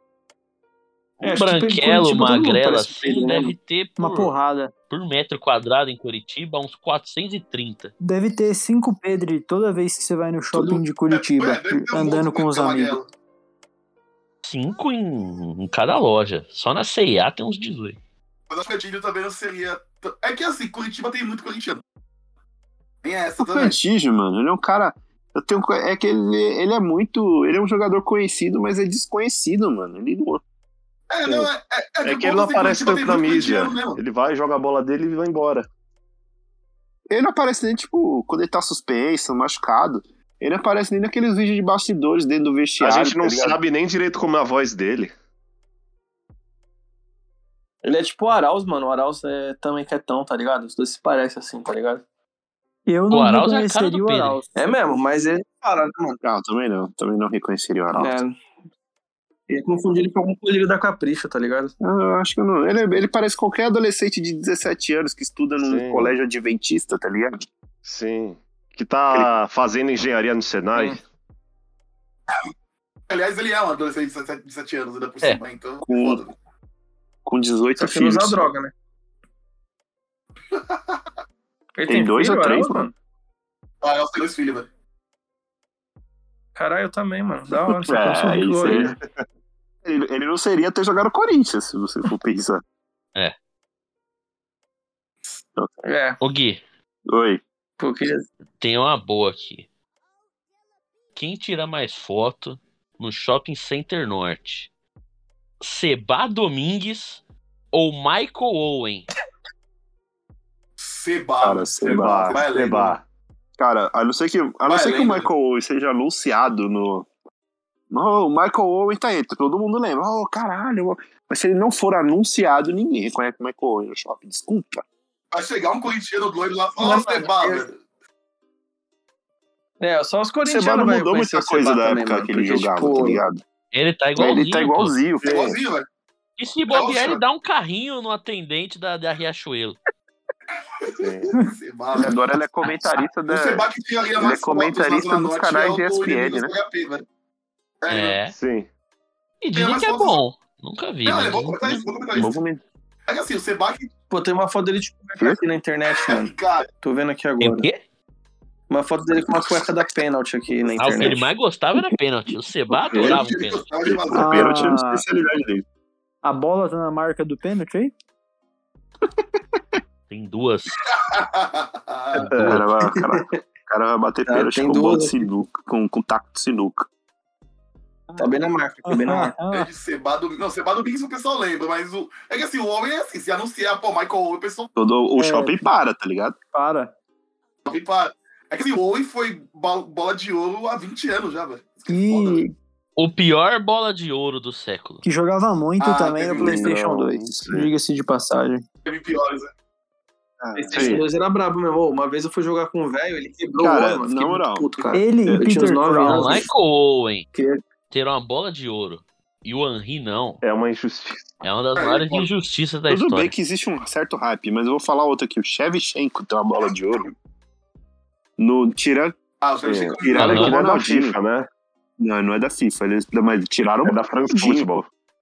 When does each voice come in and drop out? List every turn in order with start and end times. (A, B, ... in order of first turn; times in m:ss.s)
0:01.2-0:03.6 A
0:01.2-0:04.3 B
0:04.0-0:04.7 C
0:04.9-0:07.9 B
0:08.0-0:13.0 C
0:10.5-0:10.8 A
0:11.1-0:13.1 D
0:14.4-0:18.0 B
0:18.5-0:21.8 D
0:23.0-0:23.8 D
0:23.4-0:30.4 E
0:31.1-0:34.0 D
0:32.0-0:35.7 F
0:37.1-0:43.6 E
0:42.8-0:45.1 F
0:47.8-0:52.0 A
0:52.9-0:54.6 C
0:53.1-0:54.4 B
0:54.6-0:56.2 A
0:56.2-0:58.2 E
0:58.0-0:58.4 A
0:59.5-1:01.7 A
1:01.8-1:07.4 E
1:05.6-1:06.2 F
1:07.8-1:11.0 F
1:13.1-1:16.3 D
1:15.8-1:16.2 E
1:17.3-1:18.5 E
1:17.8-1:18.7 A
1:20.5-1:21.0 D
1:21.8-1:22.9 A
1:21.9-1:22.9 E
1:23.8-1:24.7 D
1:26.6-1:28.9 A
1:27.7-1:28.9 E
1:28.7-1:29.0 F
1:29.8-1:32.6 E
1:35.8-1:36.2 A
1:36.2-1:36.6 B
1:37.1-1:37.4 E
1:37.8-1:38.2 A
1:38.6-1:39.7 B
1:41.2-1:44.7 B
1:45.6-1:47.2 B
1:47.7-1:49.1 B
1:50.8-1:53.0 D
1:51.4-1:52.4 E
1:51.8-1:53.0 F
1:53.6-1:57.1 E
1:54.7-1:55.3 D
1:57.9-2:04.8 E
2:05.3-2:07.8 D
2:06.8-2:07.7 A
2:09.8-2:13.2 A
2:10.4-2:13.4 E
2:13.7-2:15.0 B
2:14.2-2:15.3 E
2:15.2-2:15.6 F
2:15.2-2:15.9 D
2:16.4-2:19.8 B
2:16.7-2:17.2 D
2:20.8-2:22.2 D
2:21.0-2:21.3 F
2:22.0-2:23.7 E
2:23.3-2:27.0 D
2:24.2-2:26.6 E
2:27.8-2:28.2 D
2:27.9-2:28.4 B
2:28.3-2:28.7 F
2:29.4-2:31.9 B
2:29.6-2:30.2 D
2:31.0-2:32.4 D
2:32.2-2:32.6 E
2:33.1-2:33.9 D
2:34.1-2:37.7 A
2:36.1-2:36.7 D
2:37.4-2:37.8 B
2:38.7-2:41.3 A
2:40.8-2:43.7 B
2:42.9-2:44.8 D
2:43.9-2:45.6 E
2:44.1-2:45.0 C
2:46.2-2:47.9 C
2:50.1-2:50.8 B
2:50.9-2:52.4 D
2:52.3-2:52.6 F
2:52.4-2:53.2 A
2:52.4-2:56.9 E
2:54.3-2:55.2 A
2:58.1-2:59.7 C
2:58.2-2:59.4 A
2:59.5-3:04.7 D
3:04.8-3:06.4 E
3:05.2-3:05.5 C
3:06.5-3:06.9 C
3:07.7-3:12.4 D
3:11.9-3:12.5 C
3:13.0-3:15.0 B
3:15.0-3:18.6 C
3:15.8-3:16.7 D
3:16.4-3:17.4 E
3:16.8-3:17.7 F
3:18.8-3:19.5 D
3:20.4-3:21.0 E
3:20.6-3:26.5 A
3:20.7-3:21.1 F
3:23.6-3:24.7 E
3:24.9-3:26.5 C
3:25.3-3:25.5 E
3:26.0-3:27.3 B
3:27.3-3:27.6 A
3:27.9-3:30.4 B
3:30.4-3:31.3 F
3:31.4-3:33.3 B
3:31.8-3:32.3 D
3:32.9-3:37.1 E
3:38.4-3:39.2 E
3:39.4-3:40.4 D
3:39.6-3:41.5 F
3:40.0-3:41.2 E
3:40.2-3:40.6 B
3:42.0-3:44.8 E
3:43.8-3:44.9 F